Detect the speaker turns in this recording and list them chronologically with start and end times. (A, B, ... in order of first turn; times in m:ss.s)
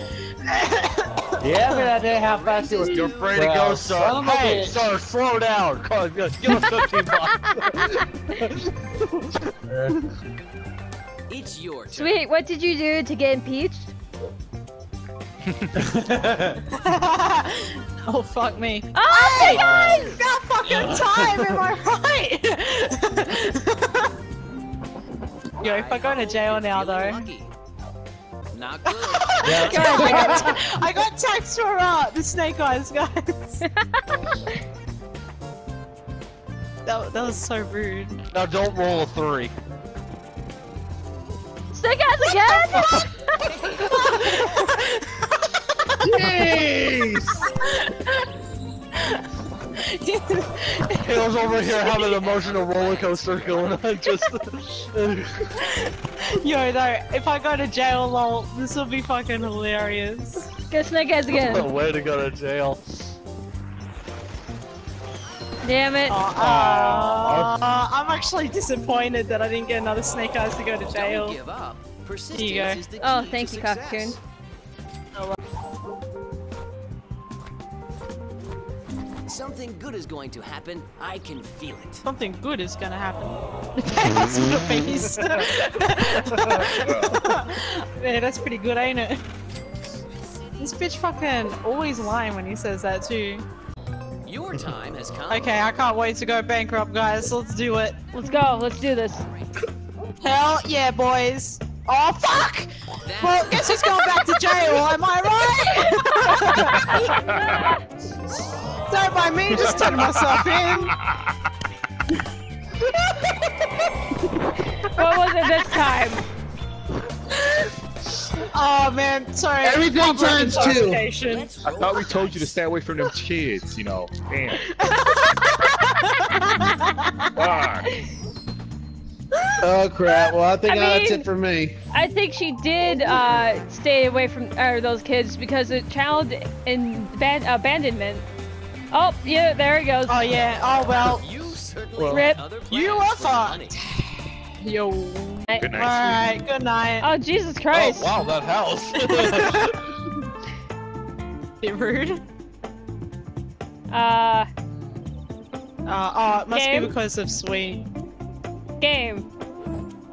0:00.4-0:02.0 A
0:01.4-0:04.8 B
0:02.0-0:03.5 C
0:02.9-0:03.3 D
0:03.0-0:08.7 E
0:11.3-0:12.2 C
0:11.9-0:13.9 F
0:15.8-0:16.6 B
0:16.7-0:24.1 A
0:18.9-0:20.0 F
0:19.5-0:20.2 C
0:20.8-0:21.0 B
0:25.6-0:27.5 C
0:25.6-0:27.3 A
0:28.5-0:30.5 C
0:28.9-0:33.6 A
0:29.4-0:30.6 B
0:29.6-0:30.5 F
0:36.8-0:38.2 A
0:38.3-0:39.5 E
0:41.7-0:43.4 F
0:42.2-0:43.1 A
0:43.4-0:44.7 C
0:43.8-0:46.4 A
0:46.0-0:47.4 B
0:47.6-0:48.2 A
0:49.0-0:52.0 A
0:51.0-0:55.5 E
0:51.5-0:53.9 C
0:55.6-1:00.5 A
1:00.7-1:01.7 F
1:01.3-1:02.8 E
1:05.6-1:06.2 F
1:06.1-1:11.4 A
1:06.4-1:07.5 E
1:10.9-1:14.2 C
1:12.3-1:12.8 A
1:13.0-1:14.2 F
1:19.3-1:22.1 C
1:22.0-1:29.2 A
1:26.7-1:27.3 D
1:30.1-1:31.1 C
1:30.6-1:33.4 A
1:34.3-1:35.5 C
1:35.3-1:38.0 A
1:38.1-1:39.2 F
1:39.3-1:39.7 C
1:40.2-1:42.7 A
1:43.0-1:43.9 C
1:43.2-1:47.1 A
1:46.6-1:47.7 F
1:47.1-1:47.7 D
1:48.9-1:50.9 A
1:49.6-1:51.2 D
1:55.0-1:56.2 F
1:57.3-1:57.7 A
1:58.4-2:01.5 A
1:59.6-2:01.0 B
2:01.2-2:02.6 C
2:01.8-2:04.6 D
2:04.6-2:07.6 A
2:07.4-2:07.9 D
2:09.6-2:11.8 B
2:10.6-2:11.3 F
2:11.9-2:18.3 F
2:12.9-2:13.2 A
2:18.9-2:20.3 F
2:20.1-2:21.2 A
2:21.0-2:23.8 C
2:22.0-2:22.2 E
2:22.1-2:22.4 F
2:22.7-2:27.1 A
2:25.6-2:26.3 D
2:27.0-2:28.1 F
2:27.7-2:29.8 E
2:29.0-2:29.8 A
2:31.6-2:32.2 A
2:33.9-2:34.5 F
2:35.9-2:37.9 A
2:36.5-2:37.0 F
2:38.8-2:39.2 F